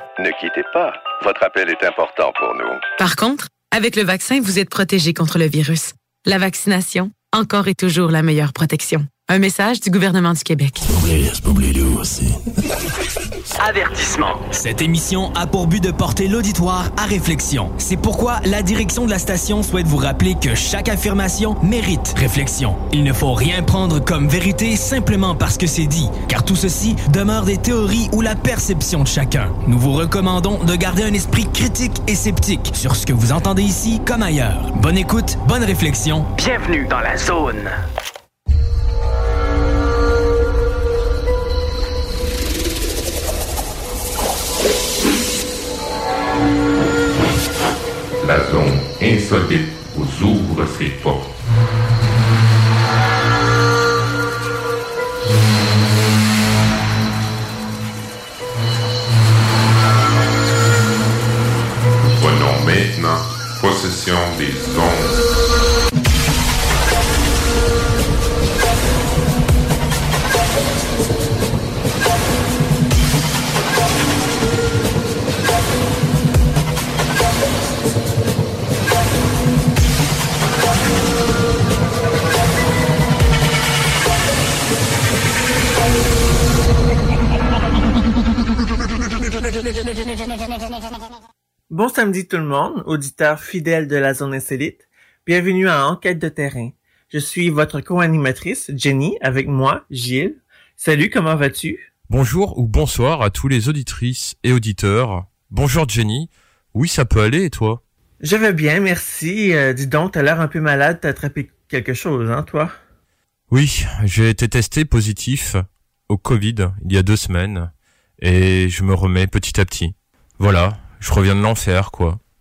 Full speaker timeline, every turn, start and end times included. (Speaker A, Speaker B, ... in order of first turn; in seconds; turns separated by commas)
Speaker A: 0.2-2.8, Speaker B: 3.0-10.8, Speaker C: 13.6-36.3, Speaker D: 48.2-51.3, Speaker D: 62.1-65.2, Speaker E: 91.7-101.9, Speaker F: 102.1-107.8, Speaker E: 108.2-112.8, Speaker F: 113.5-122.2